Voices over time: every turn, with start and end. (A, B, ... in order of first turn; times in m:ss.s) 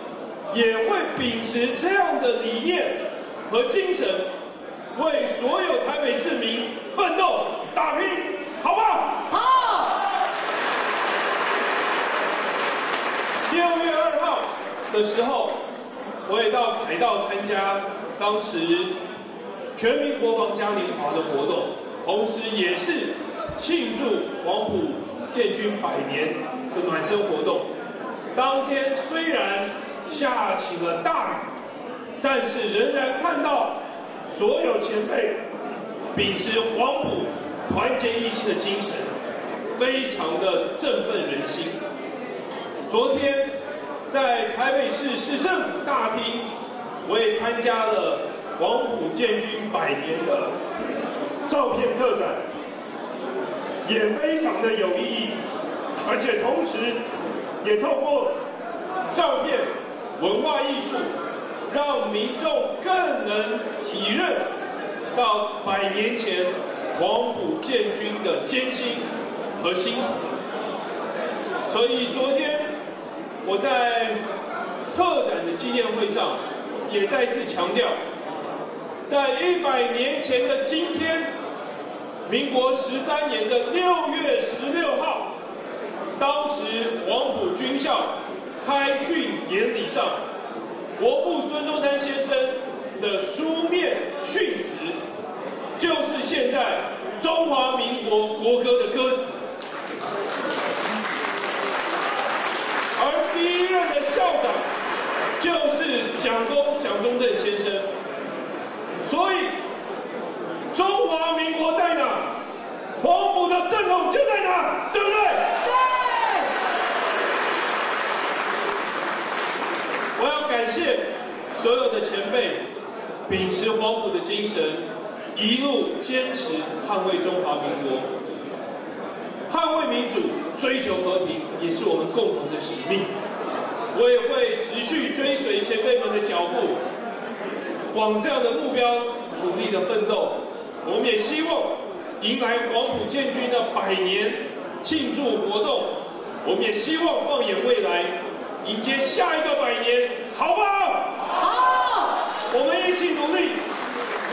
0:00.5-0:04.3 A
0:04.9-0:09.3 A
0:09.3-0:09.9 B
0:13.5-0:15.6 A
0:16.2-0:18.9 A
0:19.7-0:27.6 A
0:28.3-0:31.5 A
0:32.2-0:35.4 A
0:36.1-0:39.1 A
0:39.8-0:41.8 A
0:42.9-0:43.5 A
0:44.1-0:46.5 A
0:47.0-0:50.5 A
0:51.5-0:52.4 A
0:53.8-0:55.4 A
0:56.0-0:57.0 A
0:57.6-0:58.3 A
0:59.1-1:01.1 A
1:01.7-1:04.5 A
1:05.1-1:09.1 A
1:09.6-1:10.2 A
1:11.7-1:12.7 A
1:13.4-1:14.2 A
1:14.9-1:18.0 A
1:19.1-1:21.3 A
1:22.2-1:25.3 A
1:26.2-1:30.2 A
1:31.0-1:35.0 A
1:35.8-1:39.4 A
1:43.0-1:44.6 A
1:45.4-1:47.9 A
1:49.0-1:49.5 A
1:50.7-1:52.4 A
1:53.0-1:55.6 A
1:55.6-1:56.5 B
2:00.2-2:02.6 A
2:03.3-2:08.1 A
2:09.5-2:13.1 A
2:13.9-2:16.8 A
2:17.9-2:31.2 A
2:31.4-2:32.2 B
2:32.5-2:33.6 A